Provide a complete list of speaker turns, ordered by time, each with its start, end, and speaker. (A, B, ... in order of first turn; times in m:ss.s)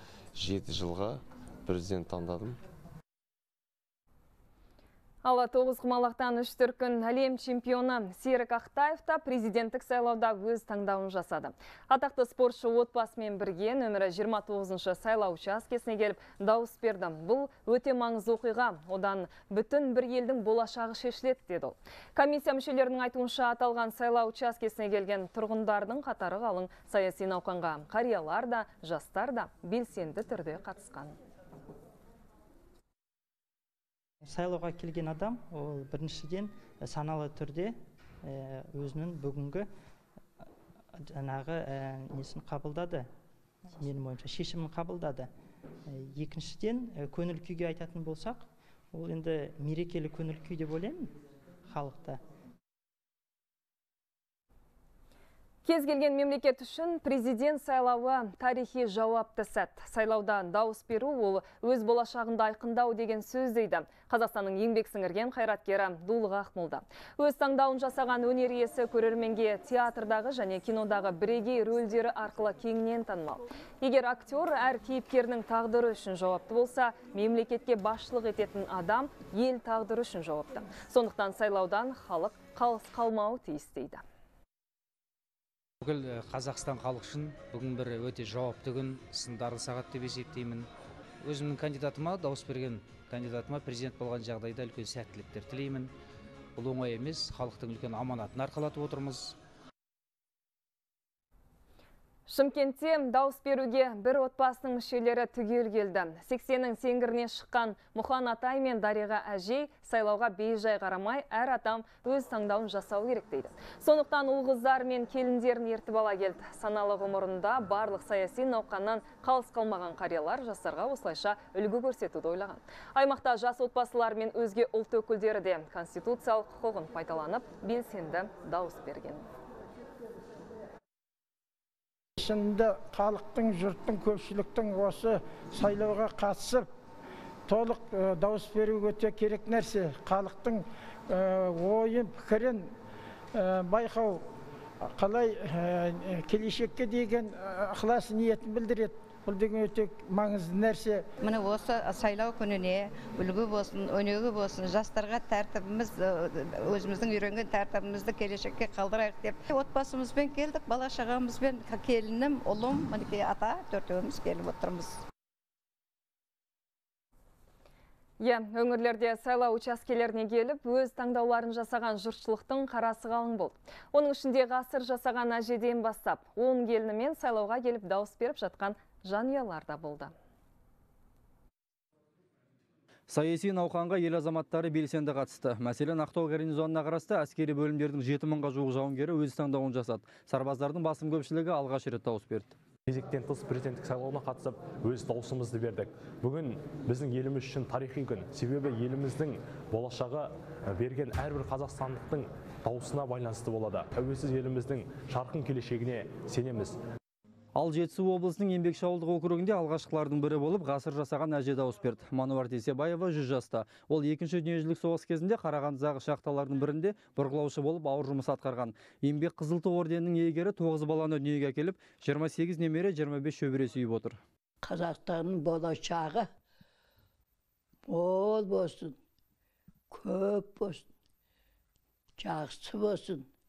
0:00.4-0:02.6 A
0:05.2-0:31.2 B
0:34.3-0:39.7 C
0:41.0-0:43.1 C
0:43.8-0:45.3 C
0:45.9-0:51.1 C
0:51.7-0:52.2 C
0:55.6-1:24.0 B
1:25.8-1:30.7 D
1:31.2-1:35.9 D
1:36.6-1:39.4 D
1:42.3-2:09.3 B
2:12.2-2:16.7 E
2:17.5-2:22.7 E
2:23.4-2:24.2 E
2:24.9-2:31.0 E
2:31.2-2:45.0 A
2:48.2-3:00.1 B
3:03.1-3:12.6 F
3:13.1-3:14.4 G
3:15.0-3:15.3 G
3:21.5-3:22.0 G
3:27.6-3:44.2 F
3:44.7-3:46.2 H
3:47.9-3:48.9 H
3:50.0-3:50.8 H
3:52.2-3:53.2 H